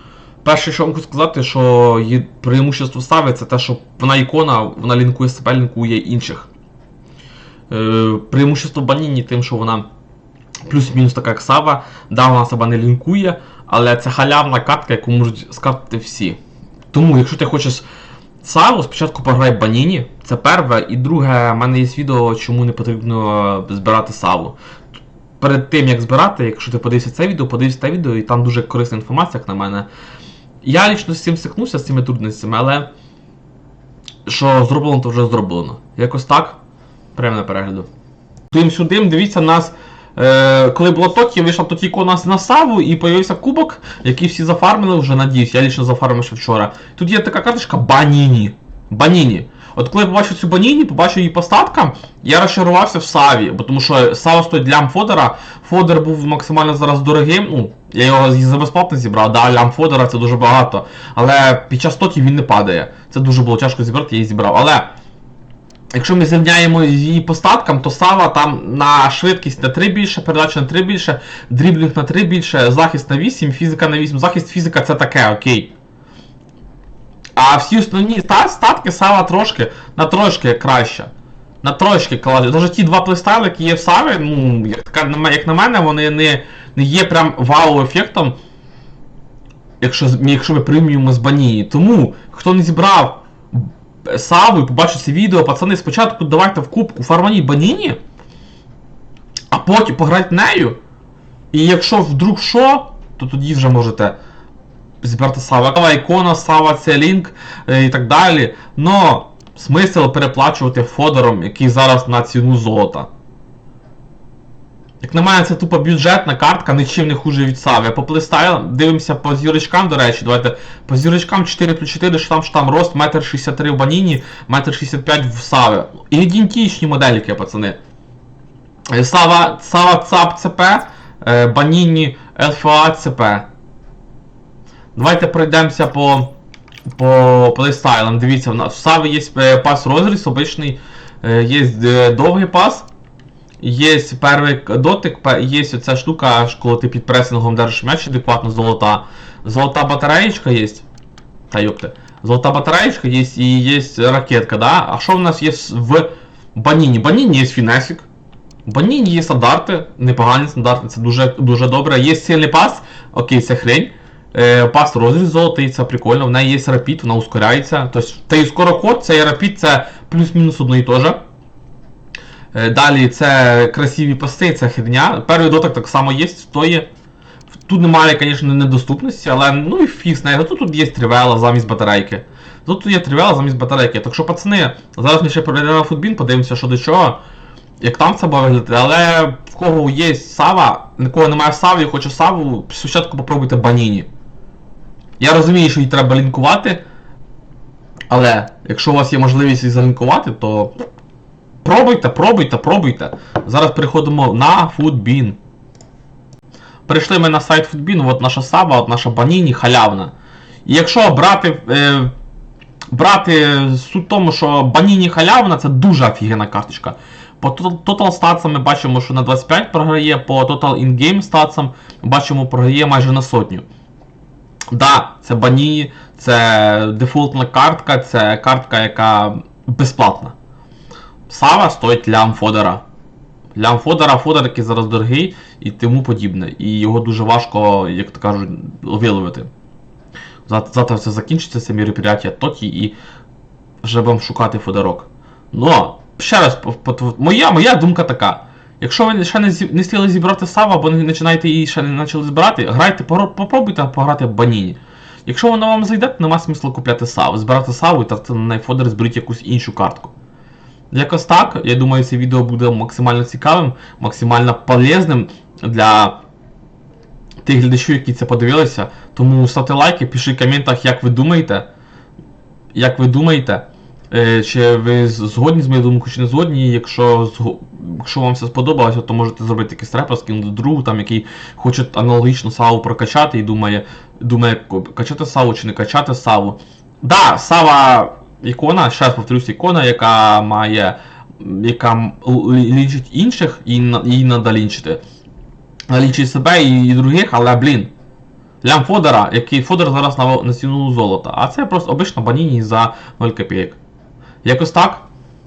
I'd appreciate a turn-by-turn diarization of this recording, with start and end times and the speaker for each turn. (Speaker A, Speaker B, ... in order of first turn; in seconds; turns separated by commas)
Speaker A: 0.4-6.5, Speaker A: 7.7-9.9, Speaker A: 10.7-16.4, Speaker A: 16.9-17.9, Speaker A: 18.4-24.6, Speaker A: 25.4-29.9, Speaker A: 30.6-32.9, Speaker A: 34.3-36.6, Speaker A: 37.1-37.9, Speaker A: 38.5-64.9, Speaker A: 65.9-75.7, Speaker A: 77.4-81.1, Speaker A: 81.6-88.4, Speaker A: 89.8-98.0, Speaker A: 99.5-100.8, Speaker A: 101.5-104.2, Speaker A: 105.0-113.1, Speaker A: 115.0-127.8, Speaker A: 128.9-133.5, Speaker A: 134.9-136.3, Speaker A: 136.9-142.9, Speaker A: 143.6-150.8, Speaker A: 151.5-158.1, Speaker A: 158.7-171.2, Speaker A: 172.5-176.9, Speaker A: 177.7-187.2, Speaker A: 187.8-194.1, Speaker A: 195.2-196.8, Speaker A: 198.1-200.8, Speaker A: 201.6-205.4, Speaker A: 206.9-210.1, Speaker A: 210.7-212.1, Speaker A: 212.9-223.7, Speaker A: 224.7-230.3, Speaker A: 231.3-232.8, Speaker A: 233.6-239.5, Speaker A: 240.5-243.0, Speaker A: 243.8-260.1, Speaker A: 260.9-266.2, Speaker A: 267.4-271.7, Speaker A: 272.8-295.0, Speaker A: 295.9-297.9, Speaker A: 298.6-303.8, Speaker A: 304.4-305.1